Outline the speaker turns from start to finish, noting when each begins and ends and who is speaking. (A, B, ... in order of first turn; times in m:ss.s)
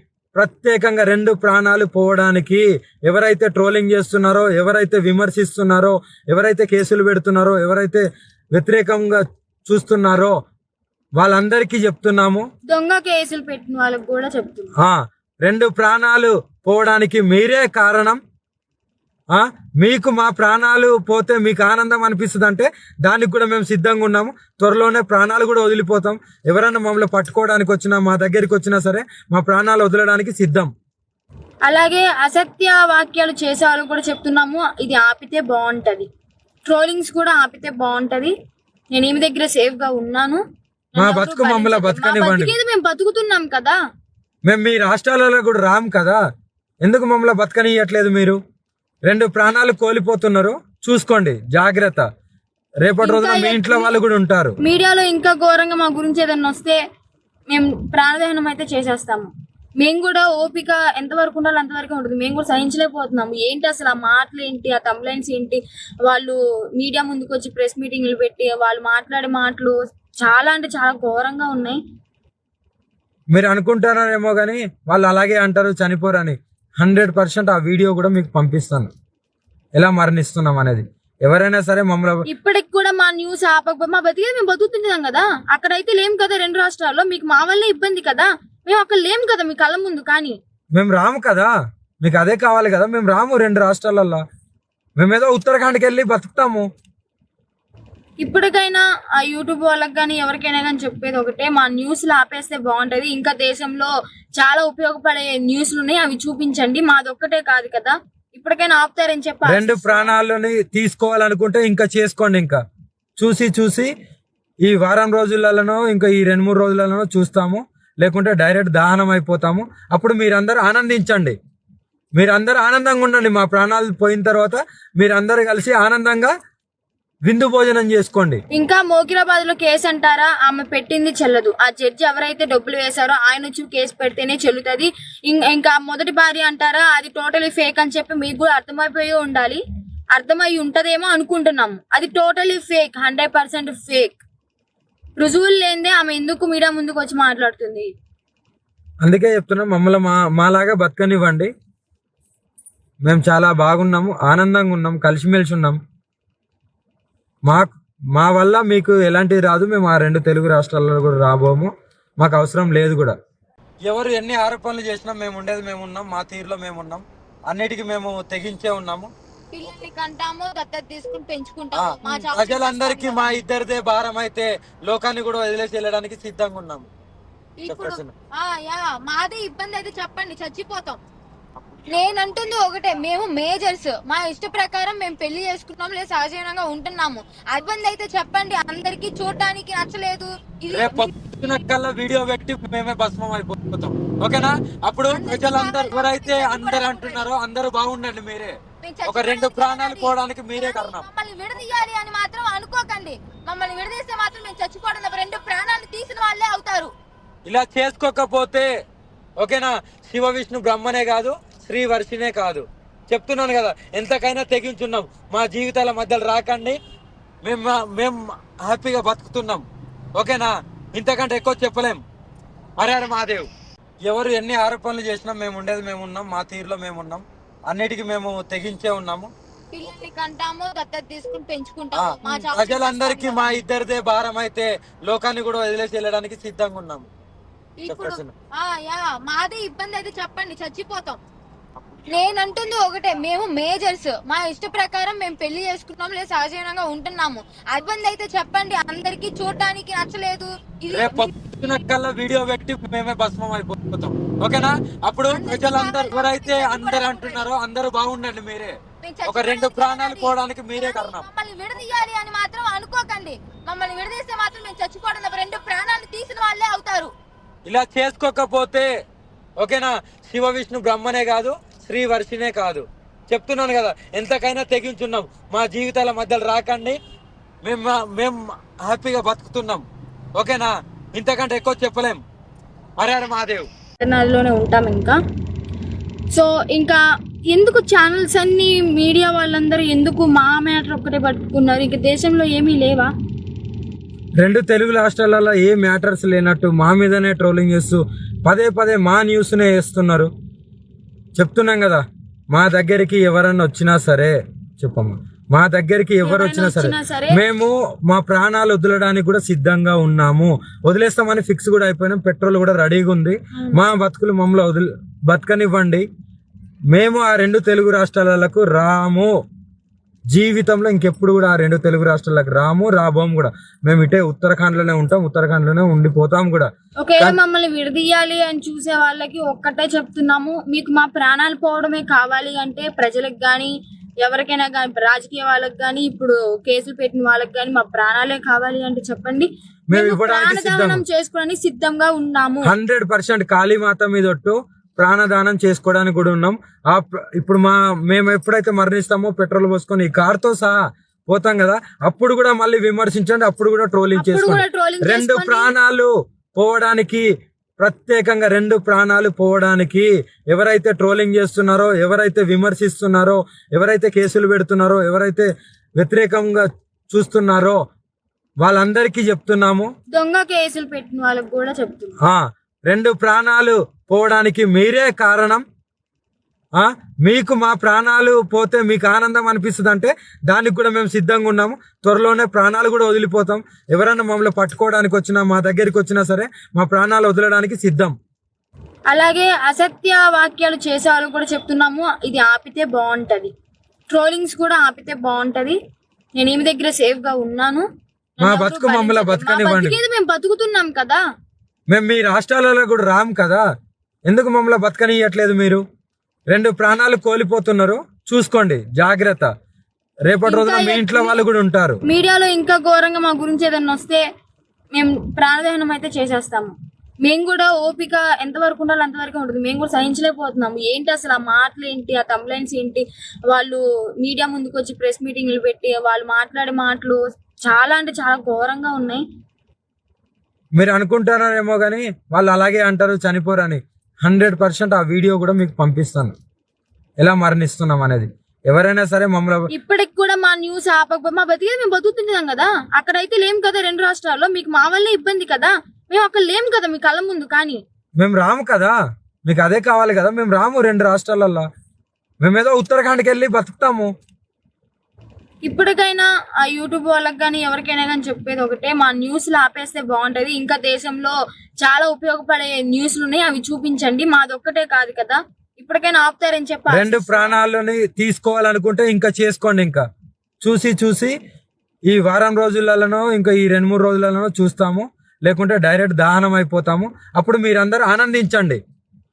0:00.4-0:10.4 A
0:11.2-0:12.4 A
0:12.7-0:14.7 B
0:14.8-0:18.2 A
0:19.3-0:30.7 A
0:31.6-0:36.1 B
0:36.7-0:38.3 B
0:38.9-0:40.4 B
0:40.9-0:43.7 B
0:41.0-0:42.5 A
0:44.5-0:46.2 A
0:46.8-0:48.4 A
0:49.1-0:52.0 A
0:52.8-0:54.5 A
0:53.0-0:54.0 B
0:54.6-0:56.8 B
0:57.5-0:59.3 B
0:59.8-1:11.8 B
1:13.3-1:18.9 A
1:19.8-1:22.2 A
1:22.3-1:30.3 B
1:30.7-1:34.2 A
1:35.0-1:36.7 A
1:38.2-1:50.1 B
1:49.4-1:52.6 A
1:53.2-1:53.9 A
1:54.6-2:01.4 A
2:02.2-2:06.3 A
2:07.3-2:08.4 A
2:08.5-2:19.6 B
2:20.1-2:24.2 B
2:25.2-2:27.9 B
2:29.0-2:31.5 A
2:33.0-2:35.8 A
2:37.5-2:43.2 A
2:43.9-2:49.1 A
2:49.5-2:53.3 C
2:51.7-2:56.9 A
2:57.6-3:01.0 C
2:57.7-2:58.1 A
3:01.9-3:11.1 C
3:10.7-3:18.6 A
3:15.1-3:17.2 C
3:18.8-3:26.9 C
3:19.1-3:21.0 A
3:27.5-3:28.7 A
3:29.4-3:36.8 A
3:37.4-3:39.6 A
3:40.2-3:42.0 A
3:42.8-3:43.5 A
3:44.1-3:49.3 A
3:49.7-3:53.6 C
3:51.9-3:57.1 A
3:57.8-4:01.2 C
3:57.9-3:58.3 A
4:02.1-4:11.3 C
4:10.9-4:21.2 A
4:15.3-4:17.4 C
4:19.0-4:27.1 C
4:27.7-4:28.9 A
4:29.6-4:37.0 A
4:37.6-4:39.8 A
4:40.4-4:42.2 A
4:43.0-4:43.7 A
4:44.0-4:45.2 B
4:46.3-4:53.1 B
4:54.4-5:00.3 A
5:01.4-5:16.0 A
5:06.2-5:07.4 B
5:16.9-5:19.3 A
5:20.3-5:27.4 A
5:27.0-5:33.7 B
5:34.2-5:42.7 B
5:39.9-5:41.0 A
5:42.6-5:50.8 A
5:51.3-5:57.2 A
5:54.1-5:55.7 B
5:57.8-6:07.8 A
6:08.6-6:09.9 A
6:10.1-6:12.1 B
6:12.2-6:15.6 A
6:16.8-6:28.1 A
6:29.1-6:33.5 B
6:34.1-6:35.8 B
6:36.4-6:37.8 B
6:38.4-6:41.2 B
6:38.4-6:40.0 A
6:41.9-6:43.6 A
6:44.3-6:45.8 A
6:46.5-6:49.5 A
6:50.3-6:52.0 A
6:50.4-6:51.4 B
6:52.1-6:54.2 B
6:54.9-6:56.7 B
6:57.2-7:09.2 B
7:10.8-7:16.4 A
7:17.2-7:19.7 A
7:19.7-7:27.8 B
7:28.2-7:28.9 A
7:29.5-7:31.7 A
7:32.4-7:34.1 A
7:35.6-7:47.6 B
7:46.9-7:50.0 A
7:50.6-7:51.3 A
7:52.1-7:58.8 A